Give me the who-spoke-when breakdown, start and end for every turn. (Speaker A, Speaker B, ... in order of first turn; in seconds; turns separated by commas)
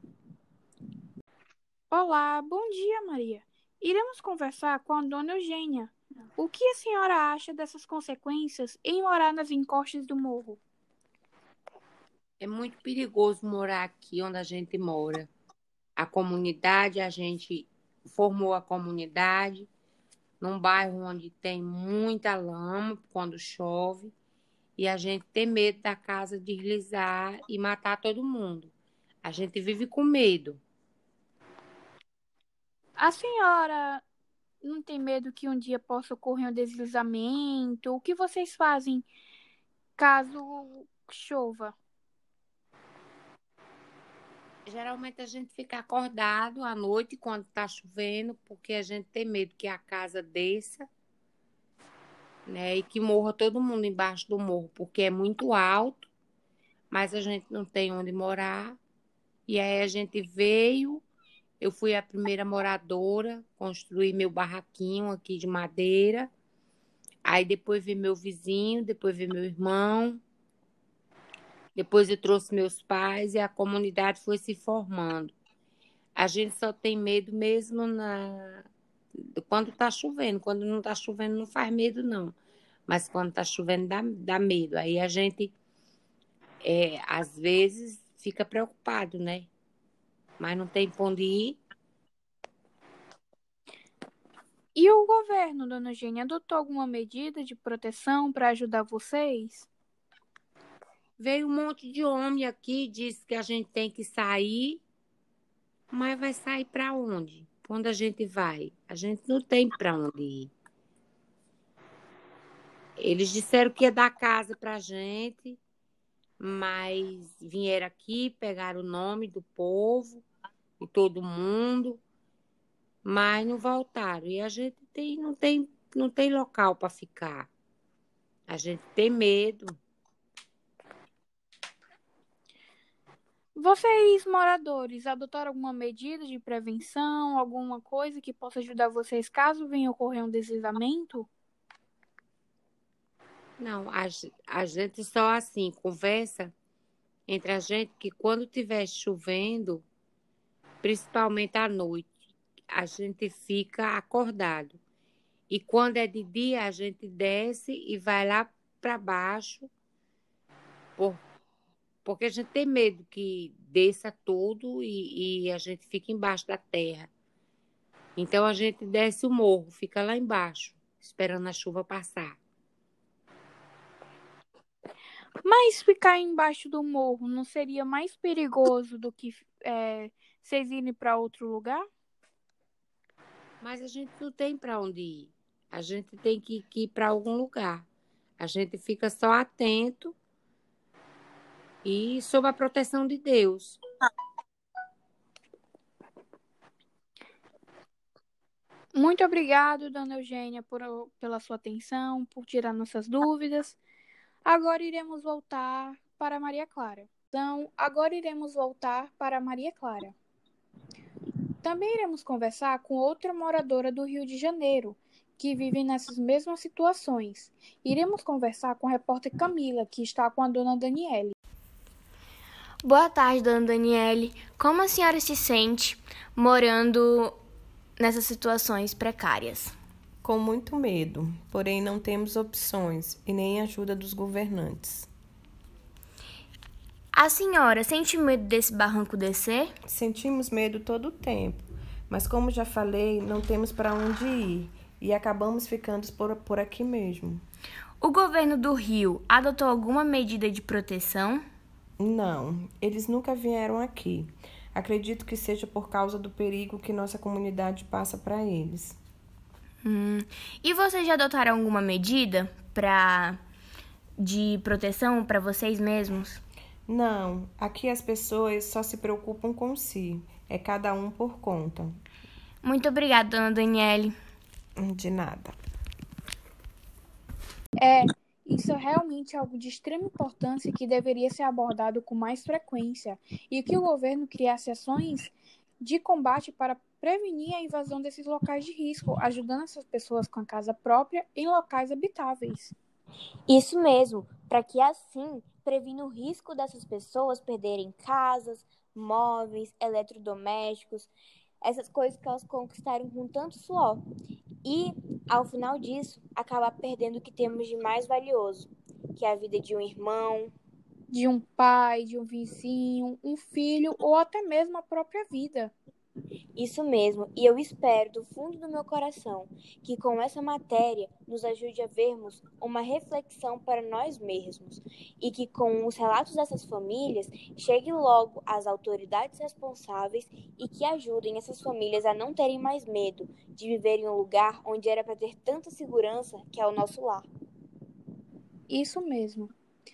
Speaker A: 1.9-10.6, Speaker B: 12.4-15.3, Speaker B: 16.0-19.7, Speaker B: 20.4-24.1, Speaker B: 24.8-28.7, Speaker B: 29.2-30.6, Speaker A: 33.0-34.0, Speaker A: 34.6-39.1, Speaker A: 40.0-41.7, Speaker B: 44.7-50.9, Speaker B: 52.5-56.1, Speaker B: 56.9-58.8, Speaker B: 59.5-61.0, Speaker B: 61.6-66.3, Speaker B: 67.2-70.2, Speaker B: 71.8-75.3, Speaker B: 76.2-78.7, Speaker B: 79.4-82.3, Speaker B: 82.9-85.5, Speaker B: 86.6-89.5, Speaker B: 90.4-91.6, Speaker A: 94.7-99.7, Speaker B: 101.2-104.8, Speaker B: 105.9-110.5, Speaker B: 113.0-115.6, Speaker B: 116.4-120.2, Speaker B: 120.8-122.0, Speaker B: 123.0-127.5, Speaker B: 128.5-129.8, Speaker A: 133.5-141.3, Speaker B: 143.6-146.5, Speaker B: 147.3-149.8, Speaker B: 150.8-152.1, Speaker B: 152.7-154.8, Speaker B: 155.5-159.7, Speaker B: 161.0-161.2, Speaker B: 162.0-167.1, Speaker B: 168.2-172.4, Speaker A: 175.4-181.9, Speaker B: 183.6-187.8, Speaker B: 188.4-190.1, Speaker B: 191.8-193.8, Speaker A: 198.9-203.8, Speaker A: 204.4-210.1, Speaker A: 211.6-221.3, Speaker C: 222.8-227.3, Speaker C: 228.0-229.7, Speaker D: 230.2-235.1, Speaker C: 237.1-239.7, Speaker D: 239.8-247.4, Speaker C: 248.0-251.4, Speaker D: 252.0-259.0, Speaker C: 259.8-263.4, Speaker C: 264.2-266.4, Speaker D: 266.9-271.9, Speaker C: 272.6-274.1, Speaker D: 274.8-275.6, Speaker A: 277.8-292.8, Speaker E: 293.5-304.0, Speaker E: 304.6-310.5, Speaker A: 311.1-315.7, Speaker E: 316.5-337.3, Speaker A: 338.7-339.5